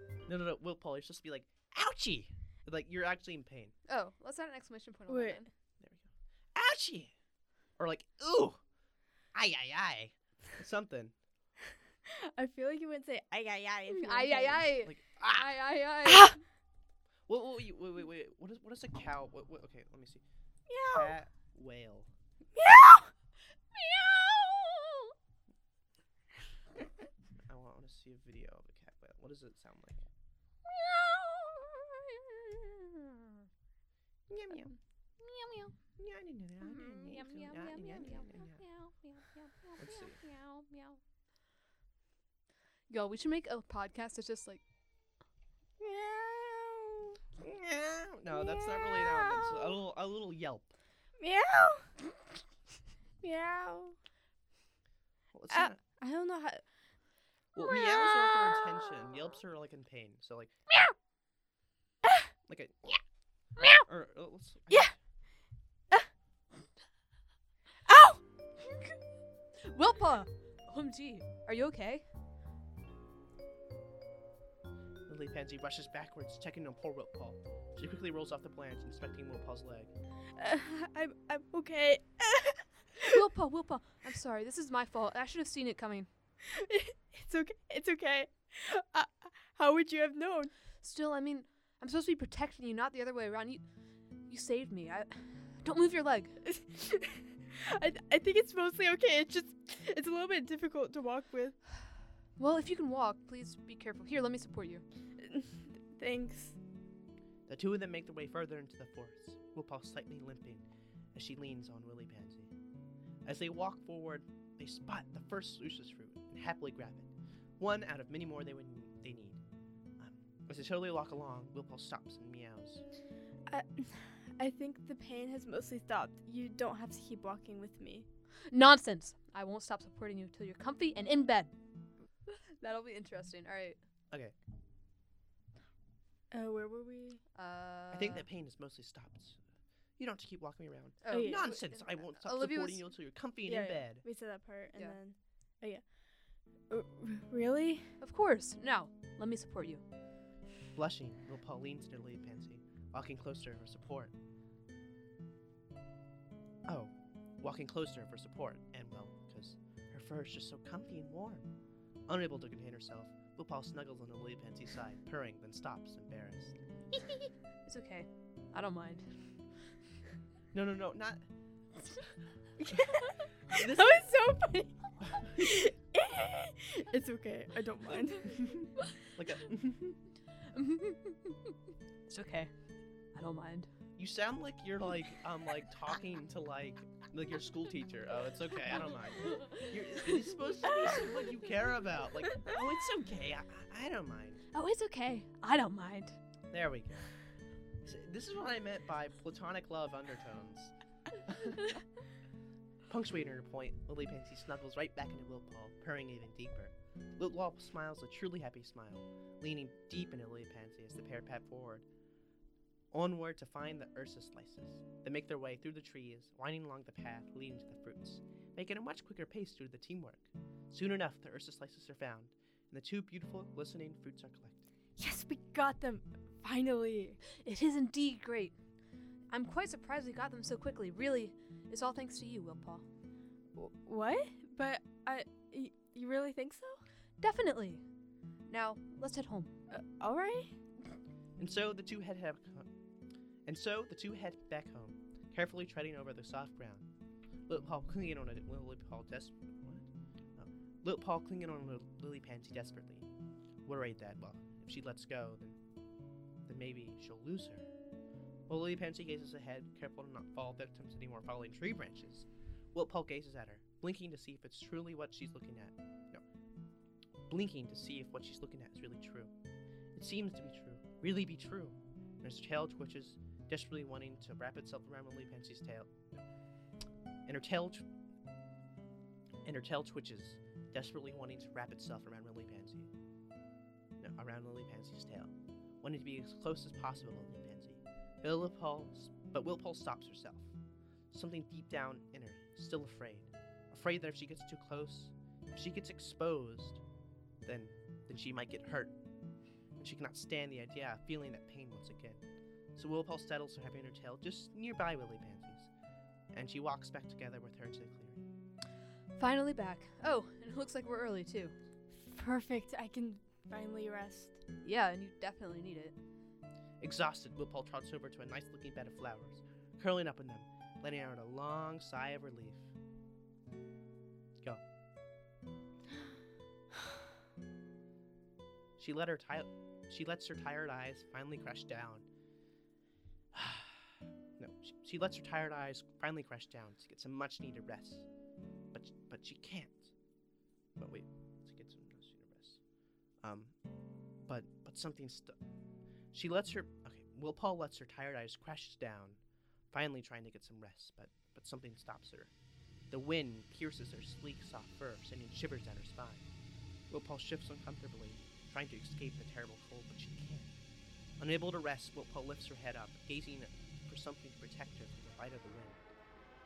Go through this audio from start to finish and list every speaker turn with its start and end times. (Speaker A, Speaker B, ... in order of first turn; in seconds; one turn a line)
Speaker A: 0.3-3.7
Speaker B: 3.9-5.5
Speaker C: 5.1-5.5
Speaker A: 5.8-7.1
Speaker A: 7.8-8.6
Speaker A: 9.3-11.1
Speaker C: 12.1-14.7
Speaker B: 13.9-16.4
Speaker A: 14.8-15.6
Speaker C: 16.1-16.4
Speaker A: 17.3-20.2
Speaker C: 20.7-21.1
Speaker A: 20.9-22.1
Speaker C: 22.6-23.1
Speaker B: 23.7-25.1
Speaker A: 27.5-30.0
Speaker B: 30.7-33.3
Speaker A: 34.3-34.7
Speaker B: 35.2-35.8
Speaker A: 36.0-38.6
Speaker B: 36.6-41.0
Speaker A: 39.8-40.2
Speaker B: 42.9-44.6
Speaker C: 45.8-47.2
Speaker A: 47.4-50.7
Speaker C: 48.3-49.7
Speaker C: 51.2-51.9
Speaker C: 53.2-54.0
Speaker A: 55.3-55.8
Speaker C: 55.5-56.6
Speaker A: 57.5-60.5
Speaker C: 57.6-58.7
Speaker C: 62.0-62.3
Speaker A: 62.5-63.0
Speaker B: 63.6-63.8
Speaker A: 63.9-65.0
Speaker C: 67.9-68.2
Speaker B: 68.7-68.9
Speaker B: 69.7-72.1
Speaker A: 75.1-79.9
Speaker C: 80.4-83.2
Speaker B: 83.0-86.1
Speaker C: 86.5-90.5
Speaker B: 90.8-93.6
Speaker B: 94.3-96.4
Speaker C: 96.5-101.6
Speaker B: 102.4-104.8
Speaker C: 105.2-106.6
Speaker A: 107.5-112.5
Speaker A: 113.2-119.4
Speaker A: 120.0-122.8
Speaker C: 123.5-128.1
Speaker B: 128.5-131.5
Speaker B: 132.3-133.8
Speaker C: 136.3-137.2
Speaker B: 137.3-138.3
Speaker A: 137.9-139.4
Speaker A: 140.0-144.0
Speaker B: 141.0-142.8
Speaker C: 141.1-141.6
Speaker C: 143.5-145.9
Speaker C: 146.7-147.9
Speaker B: 148.0-149.8
Speaker A: 150.8-154.1
Speaker A: 156.7-161.5
Speaker A: 162.1-166.6
Speaker B: 167.7-169.1
Speaker A: 170.5-171.2
Speaker C: 172.6-178.6
Speaker A: 173.5-174.0
Speaker A: 175.0-175.3
Speaker A: 178.4-180.0
Speaker B: 180.5-181.6
Speaker B: 182.1-182.5
Speaker B: 183.1-183.7
Speaker A: 184.0-194.4
Speaker B: 189.1-190.3
Speaker B: 194.5-196.2
Speaker A: 196.5-197.1
Speaker A: 197.8-200.7
Speaker A: 201.2-201.6
Speaker A: 202.9-211.9
Speaker A: 212.9-224.6
Speaker C: 225.0-227.2
Speaker B: 227.4-228.6
Speaker B: 229.3-232.8
Speaker C: 233.5-236.8
Speaker B: 237.2-237.8
Speaker B: 238.5-239.5
Speaker C: 239.7-240.6
Speaker A: 241.4-242.7
Speaker A: 243.5-246.9
Speaker A: 247.5-249.9
Speaker A: 250.4-253.1
Speaker A: 253.6-255.6
Speaker A: 256.5-257.7
Speaker A: 258.5-266.2
Speaker A: 267.3-269.3
Speaker A: 269.9-276.1
Speaker A: 277.3-277.9
Speaker A: 279.4-282.9
Speaker A: 284.0-290.5
Speaker A: 291.1-296.8
Speaker A: 297.4-298.9
Speaker A: 299.8-302.2
Speaker A: 302.8-305.7
Speaker A: 306.3-308.2
Speaker B: 309.2-311.5
Speaker C: 311.9-314.4
Speaker B: 314.6-315.9
Speaker A: 316.8-322.7
Speaker A: 328.8-332.1
Speaker A: 333.3-338.1
Speaker A: 338.7-339.9
Speaker A: 340.8-342.6
Speaker A: 343.2-343.6
Speaker A: 344.3-345.4
Speaker A: 346.1-349.2
Speaker A: 349.7-352.3
Speaker A: 352.9-356.2
Speaker A: 356.9-360.5
Speaker A: 361.2-365.8